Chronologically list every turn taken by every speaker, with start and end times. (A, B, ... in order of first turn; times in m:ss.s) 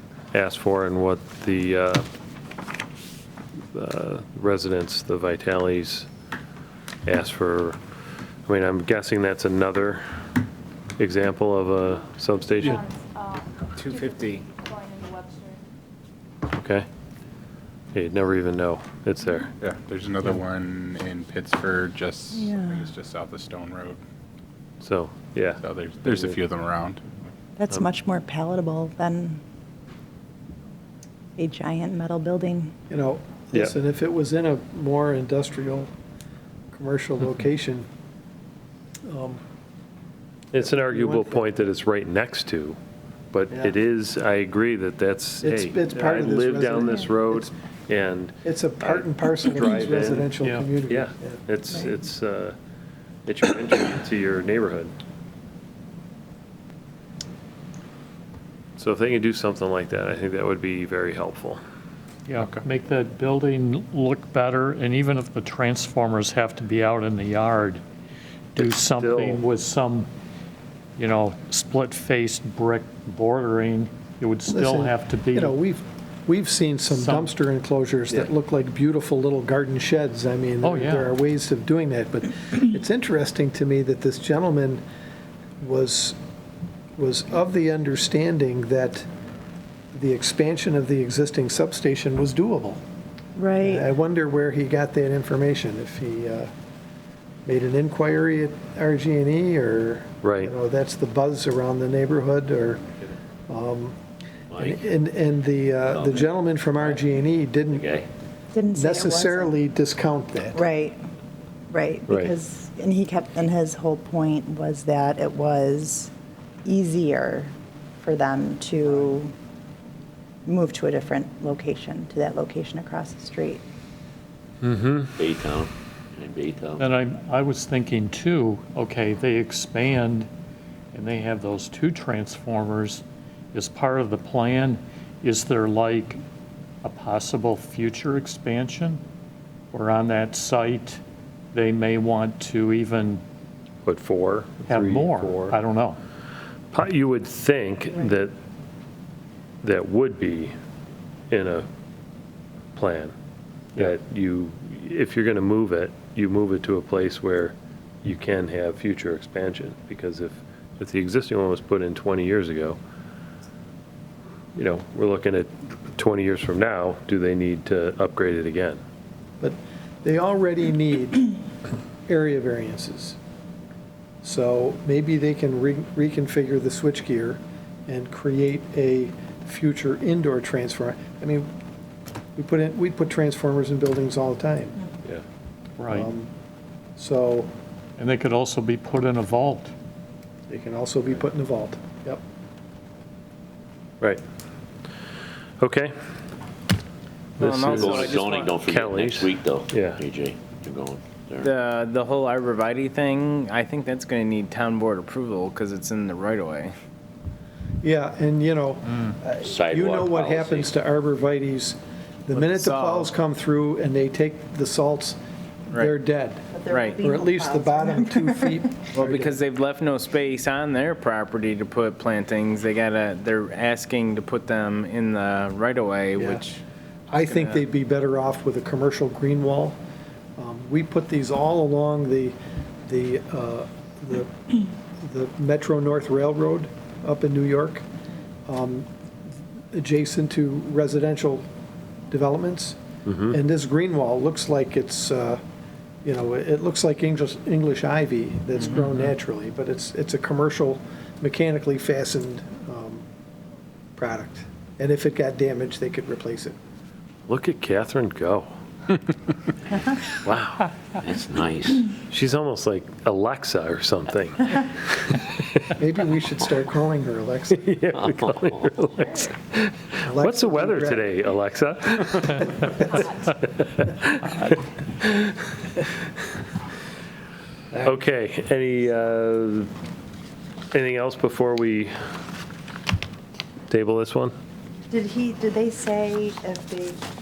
0:00.3-0:02.0 A
0:03.7-0:06.1 A
0:07.0-0:07.8 A
0:08.5-0:10.0 A
0:11.0-0:12.8 A
0:12.7-0:15.6 B
0:13.8-0:14.4 C
0:16.5-0:16.8 A
0:17.9-0:19.5 A
0:19.6-0:24.0 D
0:22.3-0:22.8 E
0:24.8-0:25.6 A
0:25.6-0:27.3 D
0:27.6-0:29.4 E
0:31.4-0:32.7 E
0:32.9-0:35.9 F
0:36.7-0:37.8 F
0:39.0-0:39.4 F
0:40.5-0:42.8 A
0:40.6-0:41.4 F
0:43.3-0:50.3 A
0:45.4-0:47.5 F
0:48.4-0:51.4 F
0:50.4-0:50.7 G
0:50.9-0:52.6 A
0:53.2-0:54.9 A
0:58.8-1:01.6 A
1:02.3-1:07.8 G
1:08.5-1:10.1 G
1:08.6-1:09.4 A
1:11.0-1:15.5 G
1:14.5-1:24.8 F
1:16.9-1:17.3 G
1:20.6-1:21.1 G
1:25.6-1:26.2 F
1:27.0-1:29.0 F
1:29.9-1:32.8 F
1:33.4-1:33.9 E
1:33.6-1:36.5 F
1:37.4-1:42.9 F
1:40.2-1:40.5 A
1:43.5-1:44.0 F
1:44.5-1:44.8 H
1:44.6-1:47.9 F
1:45.9-1:47.0 H
1:47.7-1:48.1 H
1:48.5-1:49.5 E
1:48.7-1:50.6 F
1:50.5-1:51.0 E
1:51.7-1:56.1 E
1:52.1-1:52.3 A
1:56.6-1:59.3 E
2:00.4-2:03.6 E
2:04.6-2:05.1 A
2:05.2-2:06.9 H
2:06.8-2:10.3 G
2:10.9-2:16.2 G
2:16.8-2:19.0 G
2:19.7-2:21.0 G
2:21.5-2:23.2 G
2:23.8-2:25.6 A
2:24.6-2:26.0 G
2:26.7-2:28.3 A
2:29.6-2:30.5 A
2:31.3-2:31.7 A
2:32.8-2:33.1 A
2:33.8-2:42.8 A
2:44.5-2:48.8 A
2:49.4-2:51.3 F
2:52.1-2:53.2 F
2:54.2-3:01.5 F
3:02.4-3:04.8 F
3:05.8-3:06.1 G
3:05.9-3:06.3 F
3:07.0-3:07.5 F
3:08.0-3:09.7 G
3:10.5-3:12.2 F
3:15.6-3:15.9 A
3:17.4-3:18.5 C
3:17.4-3:20.0 A
3:17.4-3:21.5 H
3:21.4-3:26.7 C
3:27.8-3:35.2 F
3:29.4-3:30.7 H
3:32.3-3:33.1 C
3:35.7-3:36.0 C
3:35.7-3:36.5 F
3:36.5-3:38.6 E
3:36.7-3:37.0 C
3:37.0-3:39.4 F
3:38.9-3:46.6 C
3:46.2-3:46.4 F
3:47.1-3:49.8 F
3:47.2-3:47.6 C
3:50.4-3:52.3 F
3:52.8-3:57.8 F
3:58.5-3:58.9 F
3:59.7-4:01.4 F
4:02.1-4:05.4 F
4:03.1-4:03.3 A
4:06.0-4:13.0 F
4:14.0-4:16.5 F
4:17.3-4:18.5 A
4:20.2-4:20.7 A
4:21.0-4:21.8 H
4:22.1-4:25.3 A
4:25.8-4:27.7 F
4:27.5-4:35.3 A
4:28.0-4:28.8 H
4:30.0-4:31.1 F
4:37.8-4:39.7 A
4:40.7-4:41.9 A
4:43.7-4:44.3 A
4:44.9-4:47.0 E